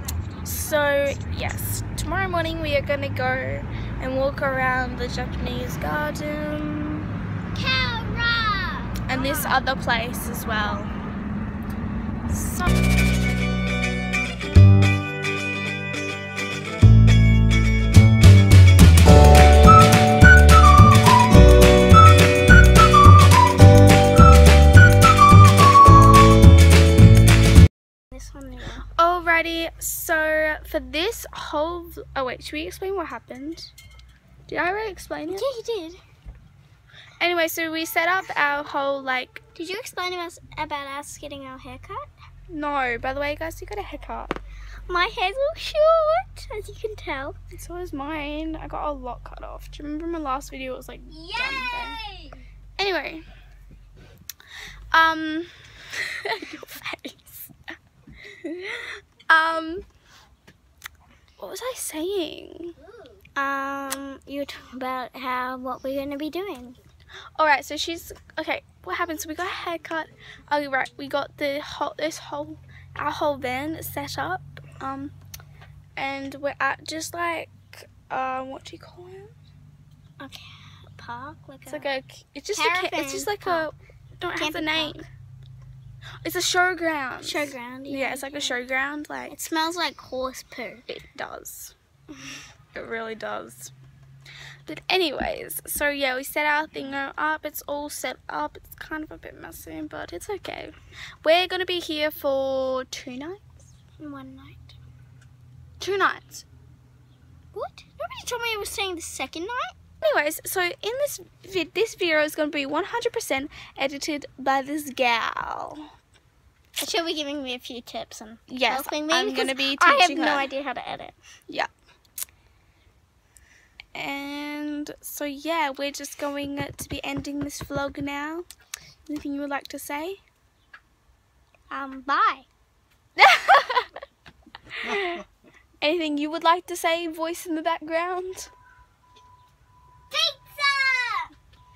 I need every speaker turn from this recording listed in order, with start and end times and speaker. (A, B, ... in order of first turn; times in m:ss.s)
0:00.4-0:07.1 A
0:07.5-0:09.3 B
0:09.1-0:10.9 A
0:12.3-0:12.7 A
0:28.1-0:28.8 B
0:29.0-0:33.7 A
0:34.5-0:35.4 A
0:35.3-0:36.0 B
0:37.2-0:39.4 A
0:39.6-0:42.1 B
0:42.5-0:44.4 A
0:44.9-0:47.4 B
0:47.5-0:52.0 A
0:51.1-0:52.4 B
0:52.8-0:53.2 A
0:54.9-0:57.5 A
0:58.3-0:59.8 A
1:01.4-1:02.7 A
1:03.4-1:06.8 B
1:07.4-1:15.1 A
1:16.0-1:19.3 A
1:20.2-1:21.9 B
1:21.6-1:25.1 A
1:22.5-1:23.7 B
1:24.4-1:25.0 B
1:26.2-1:29.4 A
1:27.2-1:28.6 B
1:29.3-1:31.0 B
1:31.0-1:31.7 A
1:32.7-1:33.7 A
1:34.6-1:43.7 A
1:44.0-1:44.7 B
1:45.8-1:46.4 A
1:47.5-1:49.7 B
1:50.0-1:55.9 A
1:56.8-2:01.2 B
1:58.5-2:00.5 A
2:03.9-2:08.4 A
2:09.1-2:10.2 A
2:11.7-2:12.4 B
2:13.2-2:13.9 A
2:14.8-2:15.2 A
2:15.8-2:18.5 A
2:20.1-2:21.3 B